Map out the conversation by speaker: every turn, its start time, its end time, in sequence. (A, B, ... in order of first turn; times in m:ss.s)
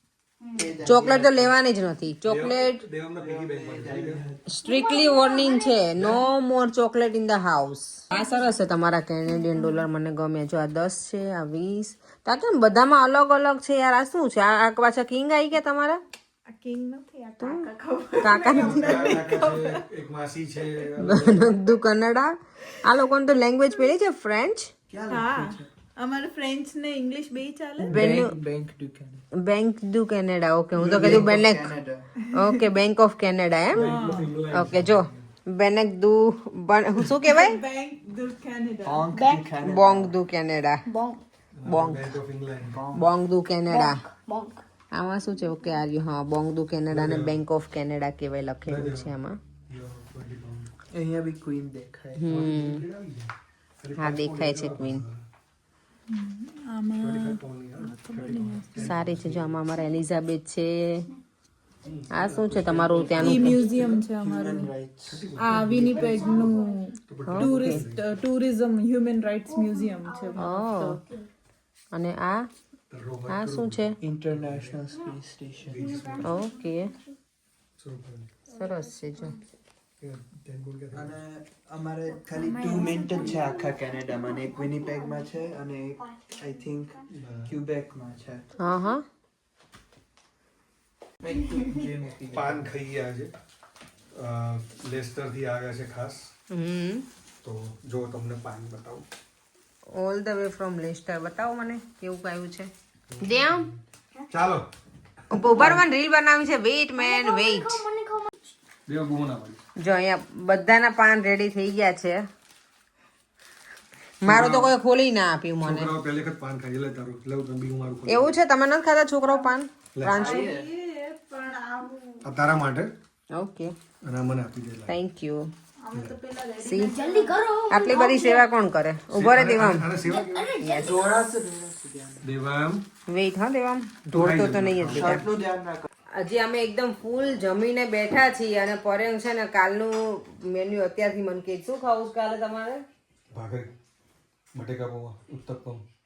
0:00.4-0:00.8 A
0:00.5-0:01.5 B
0:00.8-0:02.8 C
0:02.2-0:04.2 D
0:03.2-0:04.4 B
0:04.5-0:16.0 C
0:04.6-0:05.9 A
0:08.1-0:08.5 A
0:16.5-0:19.9 E
0:17.4-0:17.6 C
0:18.2-0:19.2 C
0:18.5-0:21.6 D
0:21.0-0:24.7 C
0:24.9-0:25.7 B
0:25.1-0:28.0 E
0:27.8-0:29.2 B
0:27.9-0:28.4 C
0:29.3-0:31.7 C
0:30.7-0:32.1 B
0:32.3-0:34.0 C
0:33.7-0:35.3 D
0:33.8-0:34.3 E
0:34.5-0:37.6 C
0:37.2-0:39.1 E
0:38.8-0:40.1 B
0:39.1-0:39.4 A
0:39.6-0:40.8 C
0:40.9-0:41.2 A
0:41.6-0:42.8 D
0:41.7-0:42.1 C
0:42.6-0:43.0 B
0:42.9-0:44.0 C
0:43.7-0:44.6 A
0:44.9-0:49.4 C
0:46.9-0:47.4 D
0:48.6-0:49.1 D
0:49.7-0:50.7 D
0:50.9-0:52.3 B
0:52.2-0:52.8 C
0:52.3-0:55.2 D
0:54.0-0:55.0 C
0:56.1-0:58.9 E
0:57.0-0:59.6 D
0:58.8-1:01.0 C
1:01.8-1:03.7 D
1:02.1-1:03.6 C
1:02.8-1:06.3 B
1:03.2-1:04.7 E
1:05.0-1:06.5 D
1:05.4-1:11.0 E
1:06.0-1:06.8 A
1:07.1-1:08.1 D
1:07.3-1:07.8 C
1:09.5-1:11.3 A
1:10.4-1:11.0 C
1:11.9-1:12.5 C
1:12.9-1:14.8 D
1:13.3-1:14.0 C
1:14.0-1:15.8 B
1:14.9-1:17.2 A
1:15.7-1:16.3 D
1:16.2-1:16.9 C
1:17.8-1:18.3 D
1:18.5-1:19.4 A
1:18.5-1:19.4 C
1:20.0-1:21.2 D
1:20.9-1:28.5 B
1:22.1-1:27.1 A
1:22.4-1:23.5 E
1:27.1-1:27.6 D
1:28.6-1:29.0 C
1:31.3-1:32.6 B
1:31.3-1:31.6 A
1:31.4-1:31.8 E
1:32.3-1:33.3 D
1:34.1-1:36.3 D
1:36.5-1:37.0 C
1:37.4-1:39.0 D
1:39.9-1:42.7 C
1:43.1-1:43.8 D
1:43.2-1:43.7 C
1:44.3-1:44.6 D
1:45.3-1:47.8 C
1:45.5-1:45.8 D
1:47.0-1:48.5 A
1:48.9-1:49.6 D
1:49.8-1:52.2 C
1:54.2-1:55.9 C
1:54.2-1:54.7 D
1:55.6-1:58.4 D
1:58.1-2:00.5 C
2:00.0-2:00.4 D
2:00.1-2:02.2 E
2:00.2-2:00.7 B
2:02.2-2:02.9 D
2:03.3-2:03.7 C
2:04.0-2:04.9 D
2:04.9-2:05.5 C
2:05.8-2:07.4 E
2:06.6-2:06.9 C
2:06.8-2:08.5 A
2:07.7-2:09.9 C
2:09.1-2:10.6 D
2:10.0-2:11.2 A
2:10.6-2:12.2 B
2:12.2-2:12.8 D
2:13.1-2:15.2 C
2:14.1-2:15.2 D
2:14.9-2:15.9 B
2:16.2-2:22.8 C
2:23.3-2:23.7 D
2:24.5-2:25.8 D